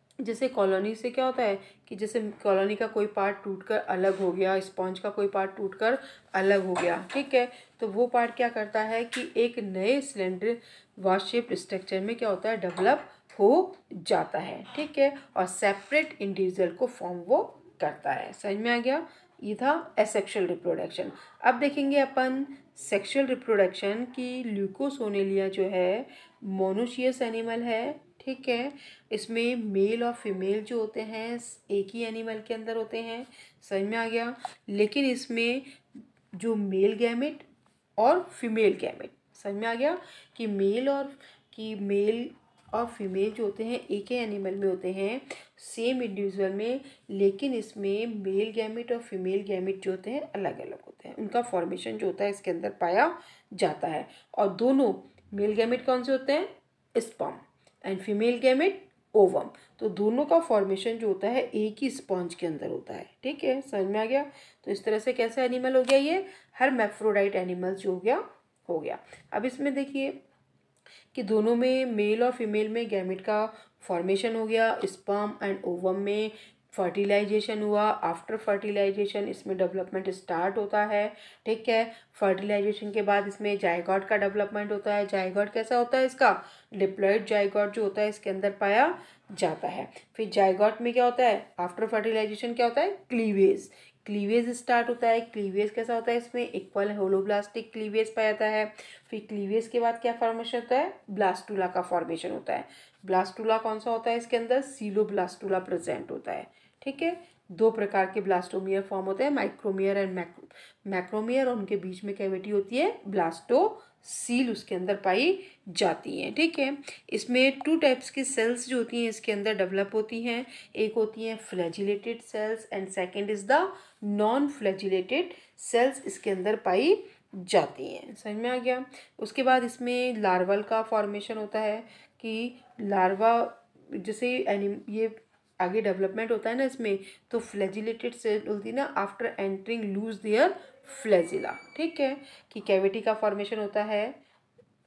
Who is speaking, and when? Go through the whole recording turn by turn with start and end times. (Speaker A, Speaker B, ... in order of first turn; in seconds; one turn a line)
Speaker A: 0.2-35.7
Speaker A: 36.4-37.4
Speaker A: 38.0-70.2
Speaker A: 71.1-144.2